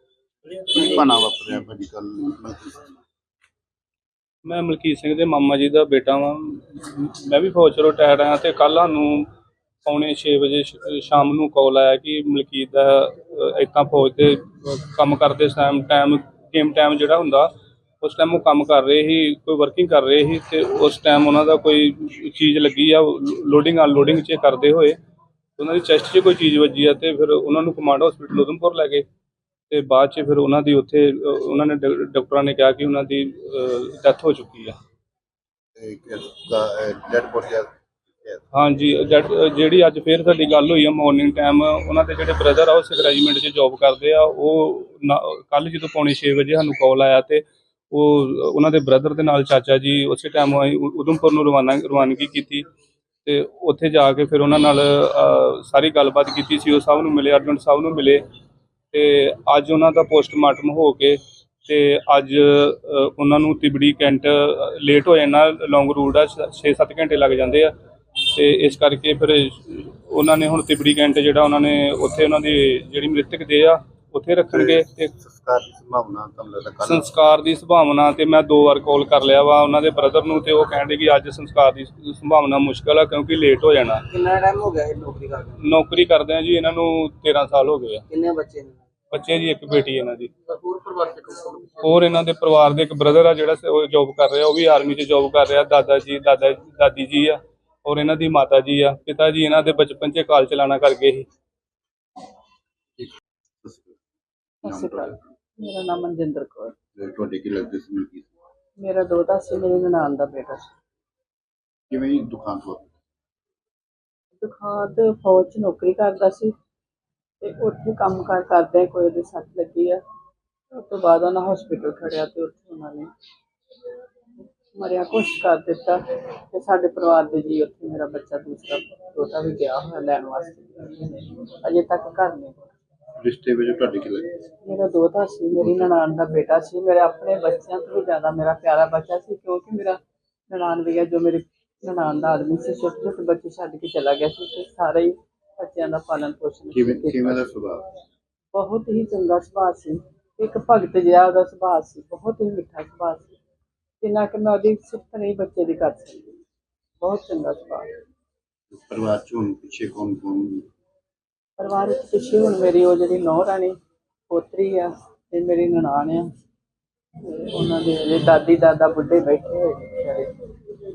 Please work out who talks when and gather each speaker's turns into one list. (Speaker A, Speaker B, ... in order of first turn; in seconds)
Speaker A: 0.5-2.9, 35.8-37.7, 74.5-77.0, 103.0-103.9, 104.6-105.2, 107.0-108.2, 111.9-112.9, 133.2-134.4, 135.6-135.9, 146.7-147.8, 158.7-160.7
Speaker B: 4.4-9.3, 9.8-25.0, 25.6-29.0, 29.7-34.8, 38.5-52.6, 53.2-58.2, 58.9-75.1, 76.8-84.2, 85.4-88.1, 89.1-101.3
Speaker C: 104.6-106.7, 108.8-110.7, 114.4-116.5, 117.4-120.0, 120.7-123.1, 124.7-132.7, 134.6-147.5, 148.5-153.4, 154.0-156.4, 157.0-157.8, 161.6-163.8, 164.3-166.3, 167.2-170.3